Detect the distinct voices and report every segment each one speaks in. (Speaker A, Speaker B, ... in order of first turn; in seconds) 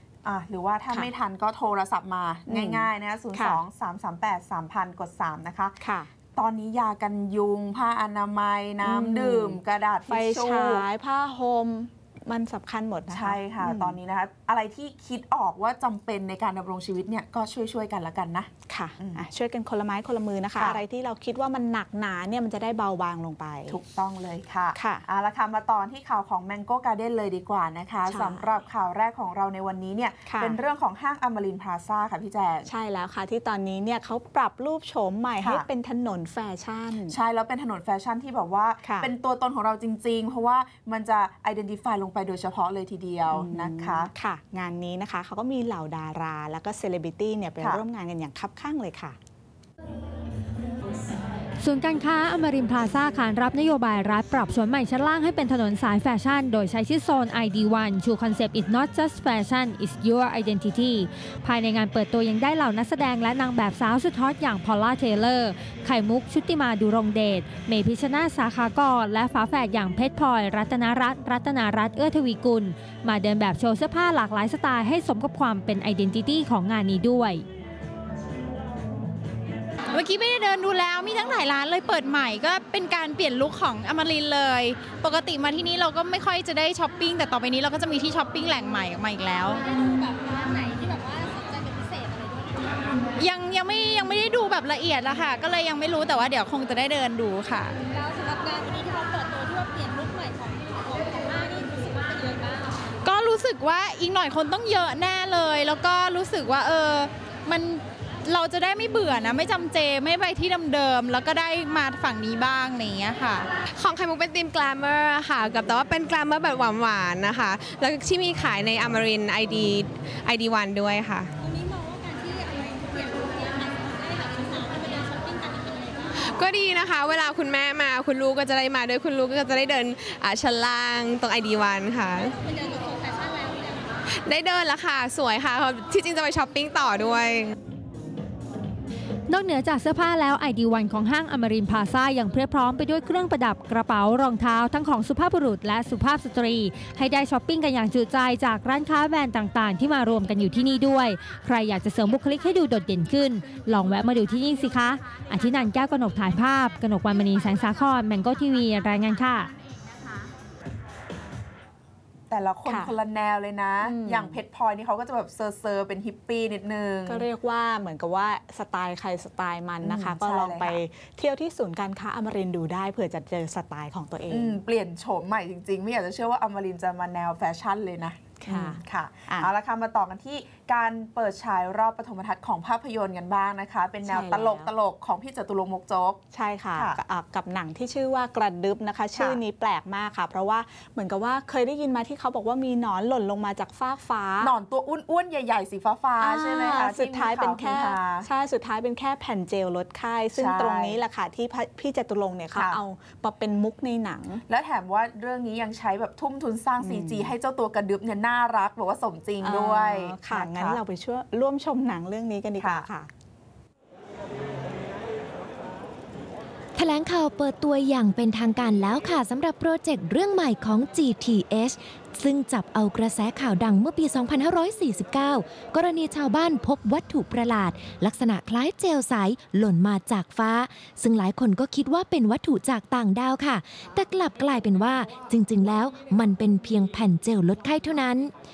Speaker A: 0.2-10.8, 13.1-19.2, 20.5-20.8, 23.7-32.7, 35.4-35.7, 37.1-44.1, 47.6-47.8, 162.3-167.3, 169.8-170.8, 174.3-186.2, 186.7-187.0, 189.1-189.4, 194.4-198.3, 200.3-201.0, 202.5-202.8, 204.5-210.8, 212.6-212.9
Speaker B: 2.5-3.6, 5.8-6.1, 8.8-14.0, 18.7-23.8, 24.8-25.0, 28.1-28.5, 30.3-30.6, 32.6-37.2, 38.8-39.1, 43.3-49.2, 162.7-162.9, 163.9-164.4, 167.1-174.6, 178.4-179.5, 184.0-184.7, 186.3-194.5, 196.2-204.4, 206.8-207.3, 209.4-213.1
Speaker C: 51.6-77.5, 139.3-159.5
Speaker D: 79.9-89.6, 93.2-97.8, 103.0-113.5
Speaker E: 90.0-92.7, 97.9-102.7, 121.5-126.1, 132.4-133.9
Speaker F: 113.8-121.2, 126.4-132.2, 134.3-137.4
Speaker G: 216.8-238.3